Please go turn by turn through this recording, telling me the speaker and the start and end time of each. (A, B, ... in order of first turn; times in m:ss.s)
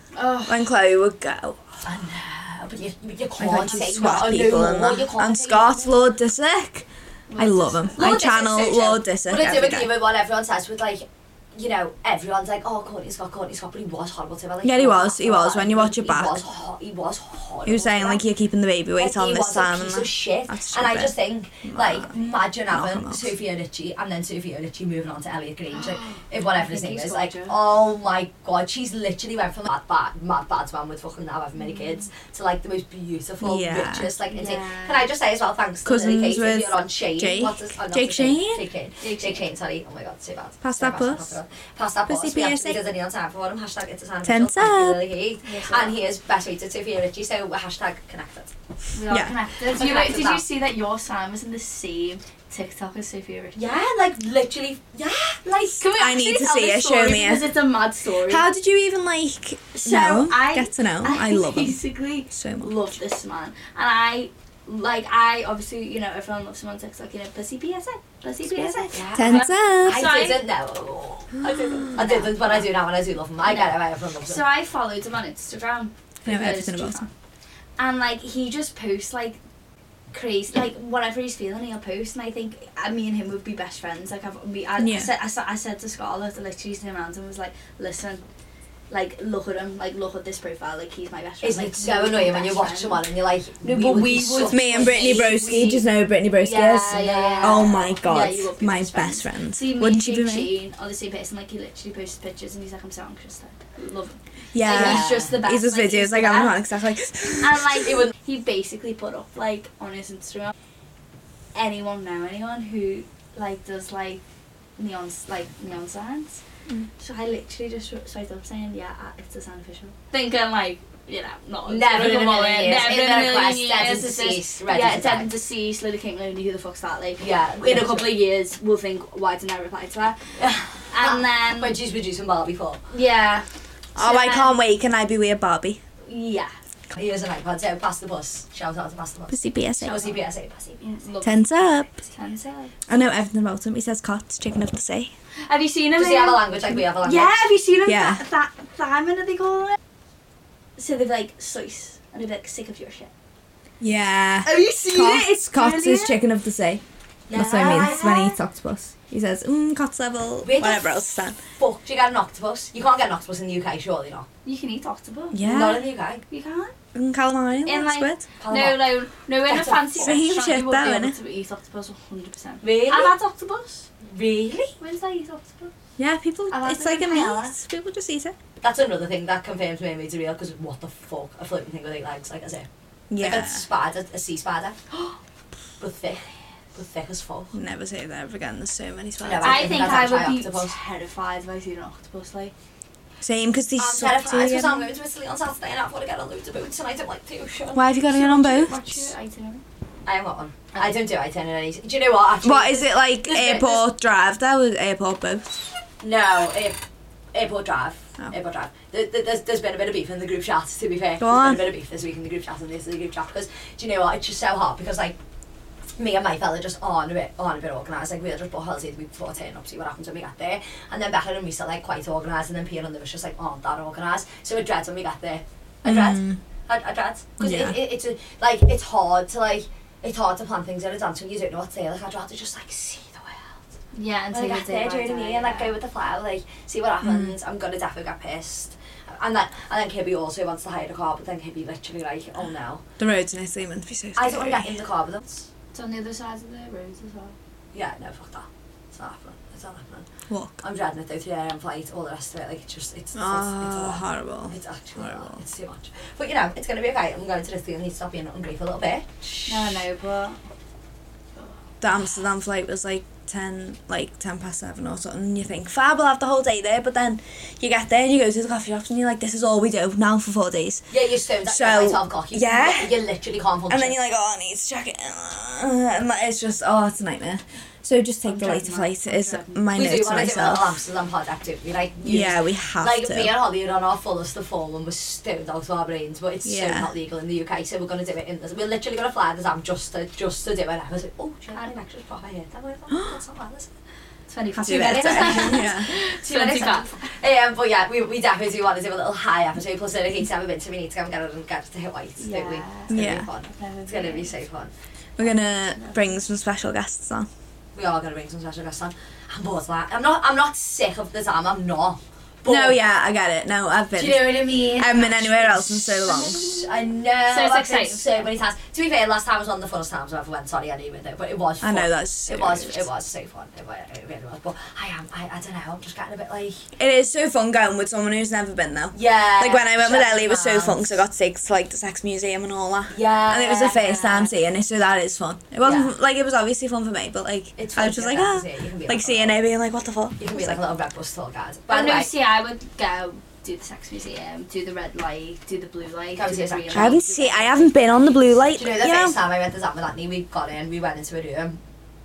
0:00.1-0:00.7 A
0:00.4-0:01.6 B
0:01.8-0:05.9 C
0:03.4-0:09.9 B
0:07.3-0:08.0 A
0:08.0-0:18.2 C
0:14.6-0:16.4 B
0:17.6-0:22.1 B
0:19.0-0:48.5 C
0:22.7-0:23.3 B
0:25.7-0:27.6 A
0:33.4-0:34.1 B
0:34.3-0:35.1 A
0:35.8-0:38.6 B
0:39.0-0:39.4 A
0:40.6-0:41.4 B
0:42.1-0:42.8 B
0:44.2-0:45.0 B
0:45.4-0:46.0 A
0:48.9-0:53.7 A
0:49.1-0:49.4 B
0:49.7-0:50.4 C
0:53.5-0:55.4 C
0:55.4-0:58.4 A
0:55.6-0:57.5 B
0:58.2-1:01.8 B
0:59.7-1:10.4 A
1:02.3-1:02.8 B
1:08.5-1:10.1 B
1:08.9-1:14.4 C
1:11.5-1:12.7 A
1:13.4-1:17.1 A
1:16.2-1:17.1 B
1:17.8-1:19.4 A
1:20.1-1:28.2 A
1:24.8-1:25.1 B
1:28.9-1:33.0 A
1:31.4-1:35.8 C
1:33.6-1:35.8 A
1:34.5-1:40.5 B
1:36.4-1:46.6 A
1:36.9-1:37.9 C
1:44.5-1:47.9 B
1:44.6-1:45.4 C
1:47.2-1:50.5 A
1:51.5-1:54.2 A
1:54.8-1:56.4 A
1:57.0-2:10.3 A
2:01.6-2:05.3 C
2:07.2-2:08.1 C
2:10.4-2:12.8 C
2:10.9-2:11.8 A
2:12.9-2:14.5 A
2:14.0-2:15.8 B
2:16.0-2:16.5 A
2:16.9-2:20.9 C
2:19.3-2:20.0 B
2:20.8-2:21.4 A
2:21.2-2:22.0 B
2:22.1-2:22.7 A
2:22.9-2:25.1 B
2:25.4-2:29.8 A
2:26.0-2:27.4 C
2:27.8-2:28.2 B
2:30.8-2:33.1 A
2:33.8-2:41.4 B
2:34.4-2:36.2 A
2:37.3-2:38.3 C
2:37.4-2:38.4 A
2:40.4-2:40.8 C
2:41.6-2:44.3 C
2:44.4-2:45.4 A
2:45.3-2:45.9 B
2:45.4-2:46.2 C
2:46.3-2:46.7 A
2:46.9-2:48.2 B
2:47.6-2:53.9 A
2:48.4-2:48.9 C
2:49.4-2:50.2 C
2:50.0-2:51.1 B
2:52.6-2:53.2 C
2:54.0-2:54.8 C
2:54.8-2:55.7 A
2:56.0-2:58.3 B
2:56.5-2:57.6 A
2:58.6-3:04.8 C
3:03.1-3:03.6 B
3:05.8-3:07.5 C
3:07.5-3:09.9 B
3:09.2-3:10.8 C
3:09.4-3:12.5 A
3:13.2-3:14.9 B
3:13.8-3:17.8 C
3:17.7-3:19.0 B
3:18.1-3:19.6 A
3:20.0-3:23.8 C
3:22.4-3:25.6 B
3:26.0-3:26.8 C
3:27.3-3:35.2 C
3:31.2-3:31.6 B
3:36.0-3:53.6 C
3:45.8-3:46.4 B
3:47.4-3:47.8 B
3:53.9-3:55.7 A
3:54.3-4:02.8 C
3:57.0-3:57.3 B
4:03.0-4:04.7 B
4:04.2-4:05.5 C
4:05.7-4:07.3 A
4:07.7-4:10.1 C
4:10.3-4:10.6 B
4:10.6-4:19.8 C
4:13.1-4:15.4 B
4:19.5-4:20.4 A
4:21.8-4:30.9 B
4:30.9-4:34.0 C
4:31.4-4:33.0 B
4:33.7-4:40.7 B
4:38.2-4:40.1 A
4:39.7-4:53.7 C
4:42.0-4:43.3 B
4:46.4-4:46.9 B
4:54.3-4:56.9 A
4:54.6-5:04.7 C
4:54.6-4:55.9 B
5:02.2-5:04.3 A
5:02.9-5:03.3 B
5:05.2-5:07.3 B
5:07.7-5:12.8 C
5:12.4-5:16.5 B
5:14.0-5:26.7 C
5:16.4-5:16.7 A
5:17.2-5:18.2 A
5:21.6-5:22.8 B
5:26.8-5:40.6 B
5:28.9-5:31.0 C
5:32.9-5:34.2 C
5:35.6-5:35.9 C
5:37.6-5:39.4 C
5:40.2-5:42.1 C
5:41.7-5:48.2 A
5:46.2-5:51.6 C
5:46.7-5:49.2 B